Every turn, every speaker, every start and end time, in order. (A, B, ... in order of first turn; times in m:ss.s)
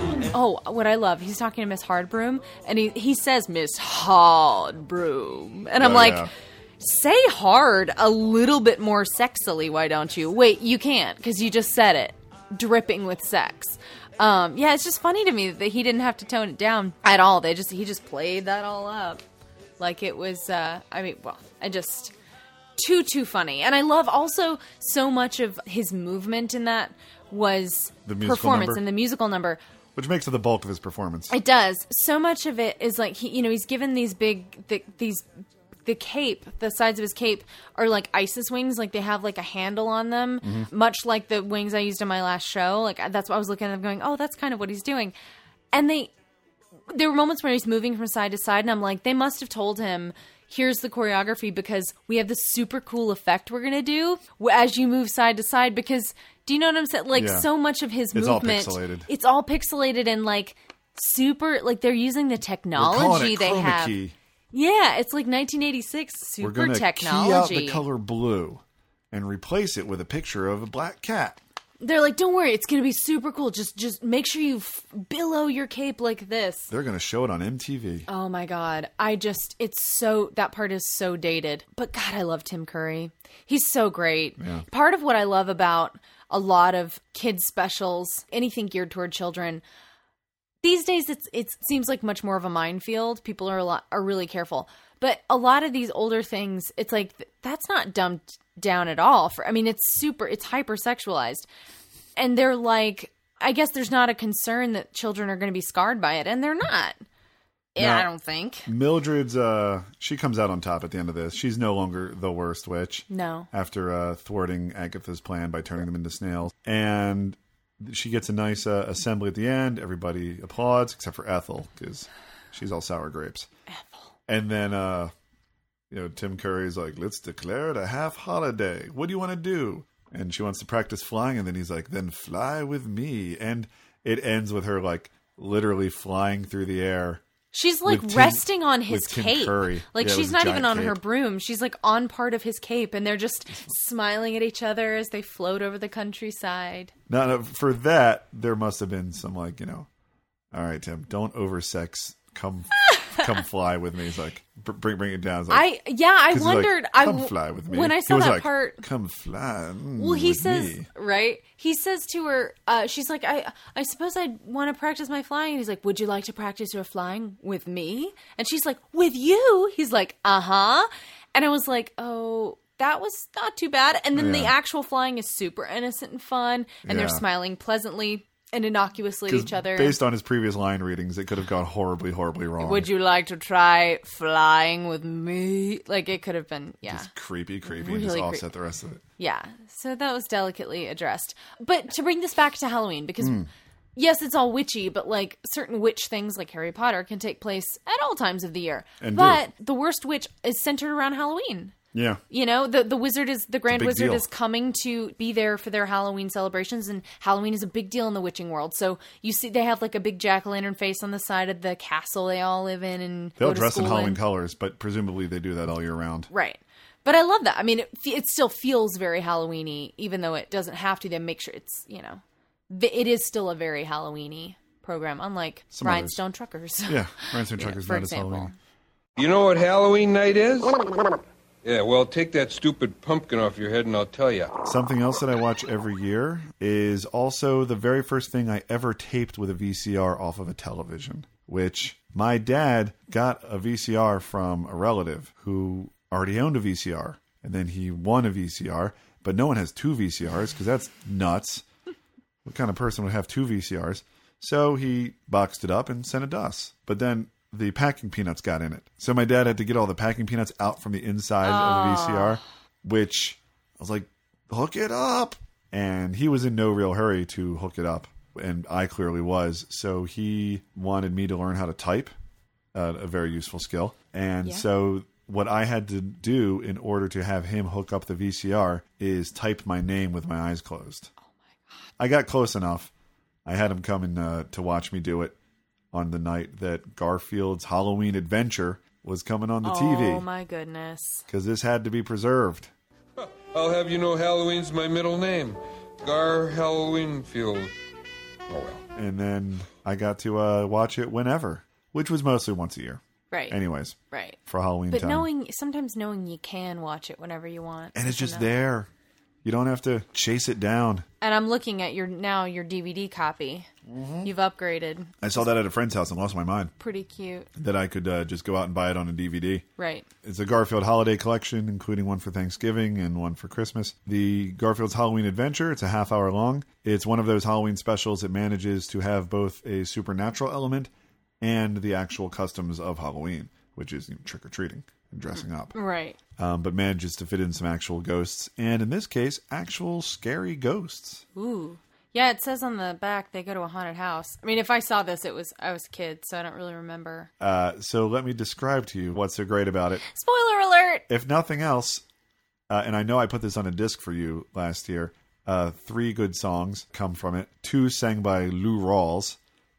0:00.3-0:06.3 A
0:05.8-0:06.3 B
0:06.8-0:19.2 A
0:19.8-0:22.1 A
0:22.8-0:29.6 A
0:28.0-0:28.8 B
0:29.9-0:31.3 B
0:31.3-0:35.3 A
0:35.8-0:45.1 A
0:40.4-0:40.7 B
0:45.7-0:46.1 A
0:46.9-1:04.0 A
0:57.1-0:57.5 B
0:58.1-0:59.1 B
1:02.7-1:04.1 B
1:04.5-1:07.8 A
1:06.4-1:11.4 B
1:11.8-1:16.7 A
1:16.7-1:18.1 B
1:18.1-1:29.6 A
1:24.4-1:24.6 B
1:30.6-1:41.5 A
1:42.2-1:47.0 A
1:47.7-1:48.7 A
1:47.8-1:48.1 B
1:48.6-2:03.5 B
1:53.1-1:53.5 A
2:03.7-2:04.0 A
2:04.3-2:05.1 B
2:05.9-2:17.2 B
2:17.5-2:26.9 A
2:17.8-2:21.0 B
2:27.1-2:29.9 B
2:30.5-2:35.6 B
2:35.5-2:38.8 A
2:36.3-2:40.9 B
2:40.0-3:00.0 A
2:54.1-2:54.5 B
2:56.8-2:57.2 B
2:59.3-3:02.9 B
3:02.6-3:07.1 A
3:06.8-3:09.0 B
3:07.6-3:08.4 A
3:09.2-3:13.4 A
3:13.2-3:13.5 B
3:14.0-3:21.7 A
3:19.0-3:19.4 B
3:21.9-3:22.2 B
3:22.3-3:34.2 A
3:23.7-3:24.3 B
3:33.4-3:36.3 B
3:36.3-3:48.5 A
3:45.7-3:46.2 B
3:46.8-3:48.5 B
3:49.2-3:50.8 C
3:51.6-3:54.6 C
3:54.6-4:11.6 B
4:12.4-4:32.1 B
4:21.4-4:22.4 A
4:32.7-4:41.1 B
4:42.0-4:42.9 B
4:43.4-4:45.4 B
4:45.9-4:50.2 B
4:49.6-4:51.3 A
4:51.3-4:52.7 B
4:53.4-4:57.7 C
4:58.5-4:58.8 C
4:58.9-5:05.3 B
5:03.3-5:03.6 A
5:04.1-5:04.4 A
5:04.9-5:08.5 A
5:07.9-5:08.9 B
5:09.4-5:11.0 B
5:11.2-5:13.7 A
5:13.8-5:14.3 B
5:14.2-5:15.4 A
5:15.2-5:16.7 B
5:16.8-5:17.5 A
5:17.6-5:19.6 B
5:19.8-5:20.1 A
5:20.2-5:35.7 B
5:35.3-5:36.2 A
5:36.4-5:41.2 B
5:41.3-5:47.3 A
5:47.4-5:50.0 B
5:50.0-5:51.0 A
5:51.1-5:52.0 B
5:52.7-5:59.4 B